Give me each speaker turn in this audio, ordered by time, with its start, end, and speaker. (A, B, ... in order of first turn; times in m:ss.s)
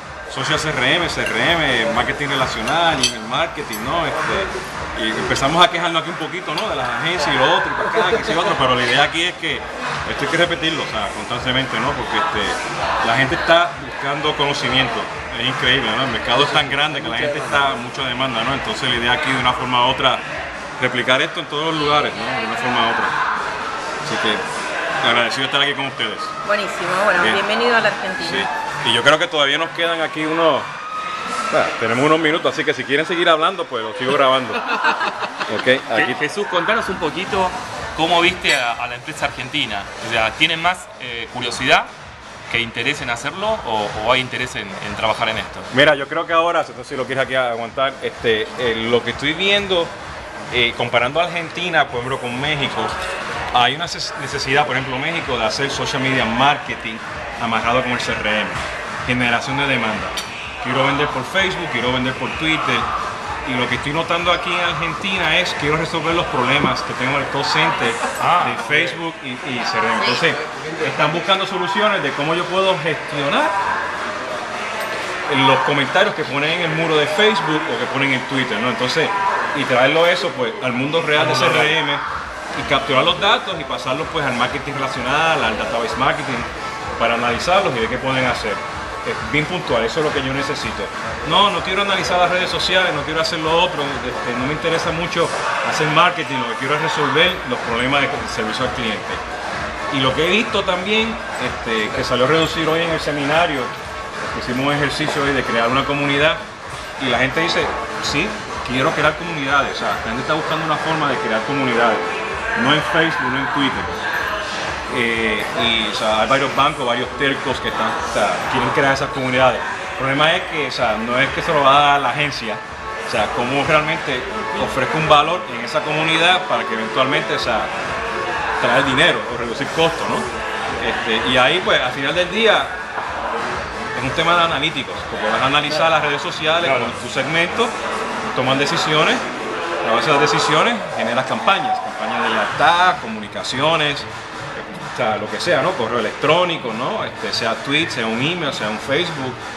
0:00.3-0:20.2 A
0:20.8-0:23.1 A
0:24.0-0:24.4 A
0:25.0-0:26.3 A
0:26.4-0:28.4 B
0:27.1-0:27.4 A
0:28.2-0:30.7 A
0:31.5-0:34.7 A
0:35.4-0:36.2 A
0:35.9-0:41.9 C
0:42.5-0:45.7 C
0:45.7-0:49.9 A
0:50.5-0:52.9 A
0:53.5-1:02.9 A
1:03.4-1:13.6 A
1:08.2-1:08.5 C
1:15.3-1:22.0 A
1:21.2-1:21.7 C
1:22.5-1:39.2 A
1:39.9-1:46.4 A
1:47.0-1:54.0 A
1:54.9-2:07.7 A
2:08.6-2:10.3 A
2:10.8-2:12.8 A
2:13.9-2:17.7 A
2:18.3-2:19.2 A
2:19.8-2:29.4 A